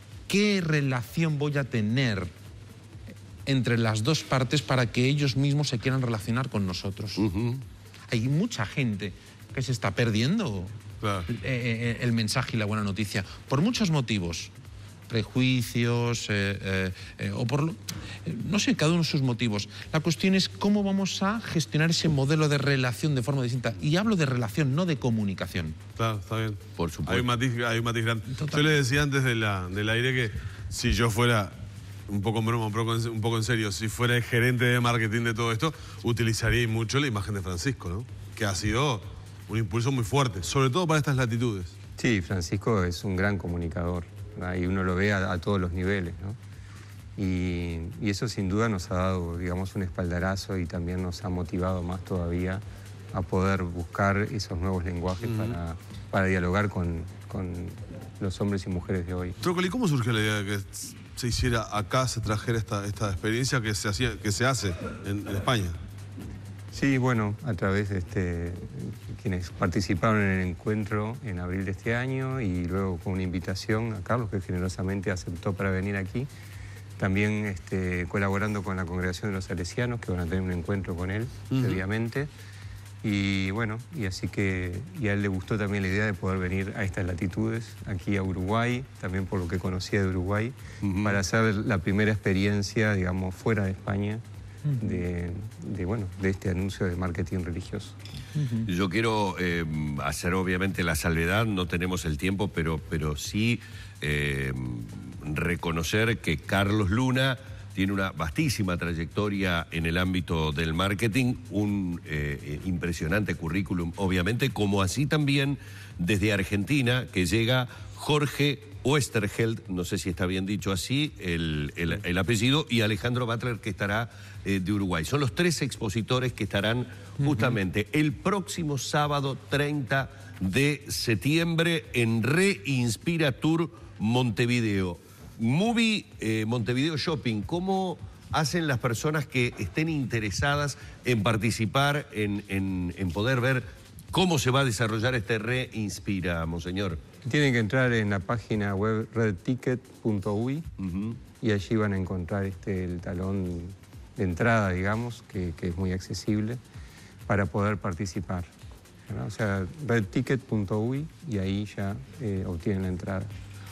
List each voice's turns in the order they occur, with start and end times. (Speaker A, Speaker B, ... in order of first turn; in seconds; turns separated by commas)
Speaker A: 0.3-2.3, Speaker A: 3.5-7.2, Speaker B: 7.2-7.6, Speaker A: 8.1-10.7, Speaker C: 11.0-11.3, Speaker A: 11.3-14.5, Speaker A: 15.1-25.8, Speaker C: 26.0-31.6, Speaker B: 26.8-27.3, Speaker A: 28.3-28.7, Speaker C: 32.1-41.7, Speaker D: 42.0-46.4, Speaker D: 47.2-52.6, Speaker D: 53.1-59.4, Speaker C: 59.4-65.8, Speaker D: 66.7-76.3, Speaker D: 77.0-82.3, Speaker C: 81.5-81.8, Speaker D: 83.0-94.2, Speaker B: 90.8-91.2, Speaker A: 94.6-95.0, Speaker D: 94.8-97.9, Speaker A: 98.4-98.7, Speaker B: 98.7-147.0, Speaker D: 147.2-150.7, Speaker B: 150.8-151.2, Speaker D: 151.4-156.6, Speaker D: 157.3-158.5, Speaker D: 159.1-163.3